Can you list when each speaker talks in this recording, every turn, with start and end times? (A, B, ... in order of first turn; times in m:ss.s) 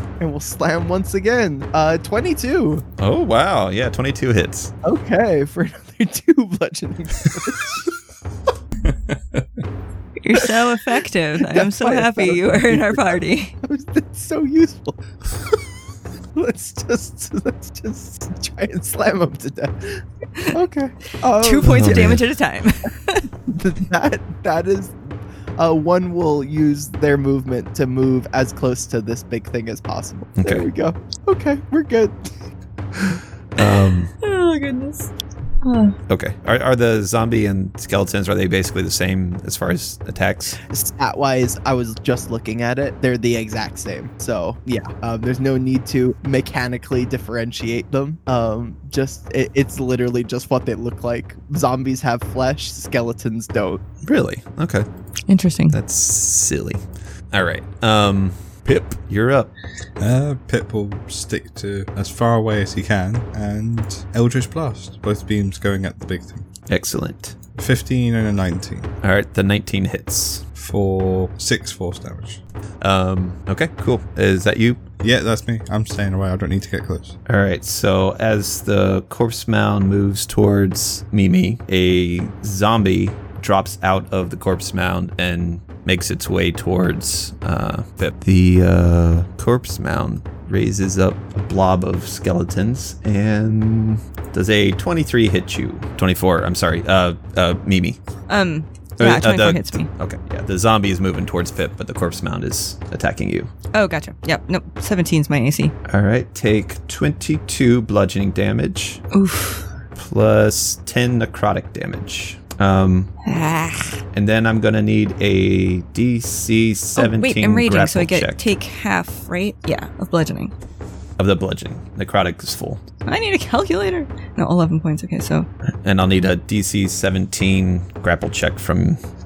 0:00.2-0:02.8 A
0:03.0-0:04.7 B
0:04.8-0:07.9 A
0:08.8-0:09.6 C
0:10.2-0:13.5 D
0:11.4-0:15.0 A
0:16.3-0:22.1 A
0:21.4-0:23.3 D
0:21.7-0:22.2 B
0:23.5-0:32.3 A
0:30.4-0:30.7 B
0:33.6-0:34.1 B
0:34.2-0:35.1 D
0:35.6-0:35.9 D
0:36.1-0:40.6 B
0:40.6-0:53.8 A
0:54.0-0:54.9 B
0:55.3-0:55.8 D
0:55.7-0:59.5 B
1:00.0-1:06.4 C
1:06.7-1:07.4 B
1:07.5-1:08.9 C
1:09.0-1:10.4 B
1:10.6-1:12.4 C
1:12.8-1:14.8 B
1:15.0-1:17.1 C
1:17.3-1:38.0 B
1:38.3-1:39.9 D
1:39.0-1:43.5 B
1:43.7-1:45.7 D
1:45.8-1:49.0 B
1:49.1-1:49.6 D
1:50.0-1:53.1 B
1:53.2-1:54.0 D
1:54.1-1:58.5 B
1:57.0-2:00.5 D
2:01.2-2:02.8 B
2:03.0-2:05.5 D
2:05.8-2:09.0 B